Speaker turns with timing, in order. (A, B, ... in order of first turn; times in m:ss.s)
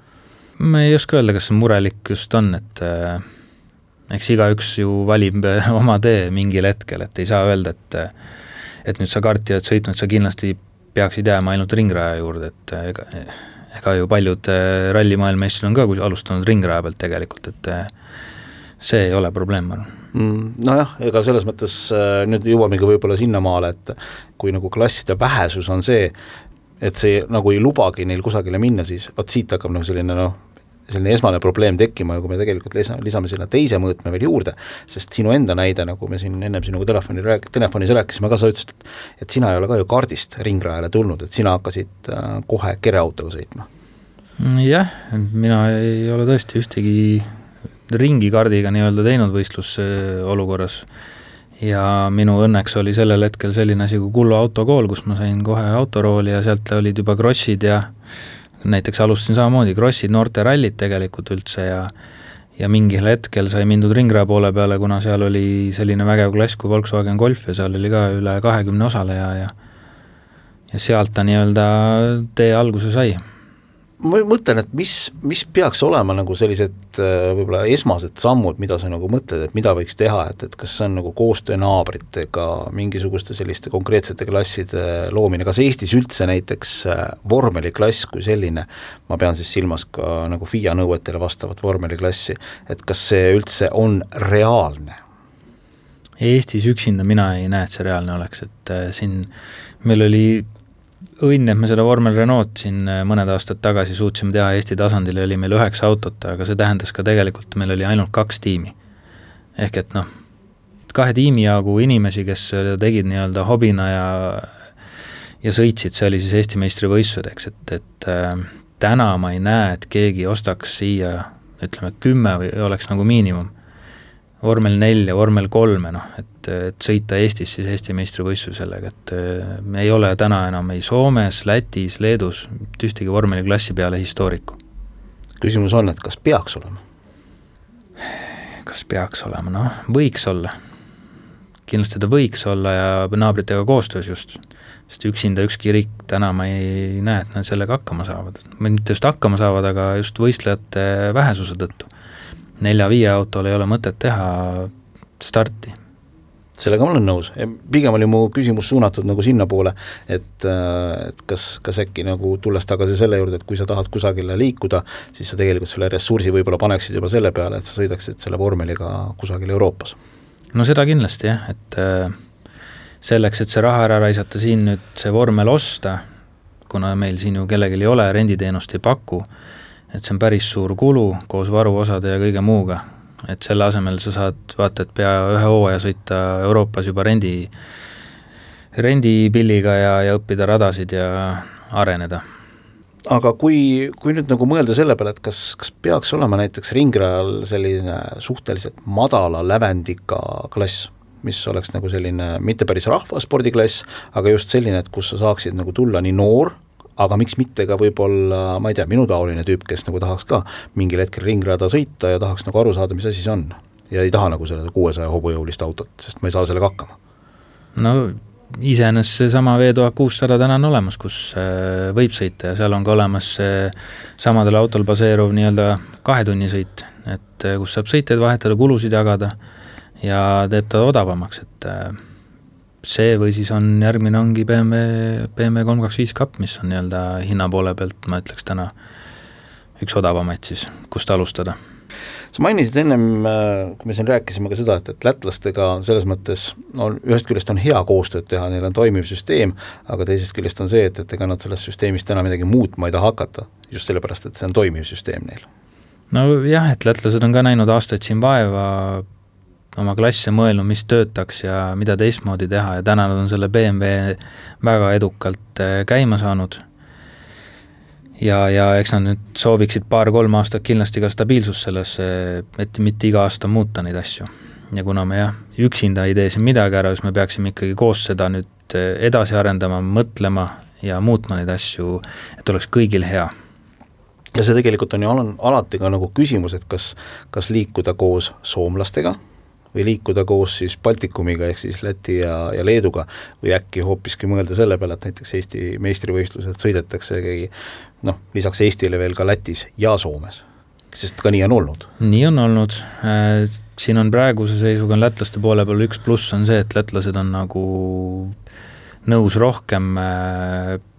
0:00.6-0:03.2 A
0:04.1-0:08.1 A
0:08.8-0:17.9 A
0:18.8-0:19.9 A
0:20.1-0:26.1 B
0:26.8-0:43.7 B
0:44.4-0:47.3 A
0:47.9-0:50.9 A
0:51.6-0:57.9 A
0:58.6-1:01.9 A
1:02.6-1:09.5 A
1:10.7-1:13.2 A
1:14.0-1:35.0 B
1:36.2-1:39.3 A
1:39.8-1:40.5 A
1:41.2-1:48.8 A
1:49.6-1:50.1 A
1:50.9-1:54.5 A
1:55.4-2:03.5 A
2:04.4-2:14.6 A
2:15.4-2:16.8 B
2:18.6-2:20.5 A
2:21.7-2:24.4 A
2:24.9-2:31.9 A
2:32.6-2:35.8 A
2:36.6-2:50.0 B
2:50.5-2:52.1 A
2:53.0-2:56.0 A
2:56.7-2:59.3 A
2:59.9-3:07.5 A
3:08.7-3:12.2 A
3:13.1-3:37.0 B
3:37.8-3:49.4 A
3:50.0-3:52.0 A
3:52.8-3:58.7 A
3:59.8-4:01.6 A
4:02.3-4:15.4 B
4:16.1-4:19.0 A
4:19.8-4:26.6 A
4:28.2-4:43.3 A
4:44.4-4:49.2 B
4:49.7-4:57.5 B
4:58.0-5:01.9 B
5:02.0-5:08.4 A
5:09.0-5:10.8 A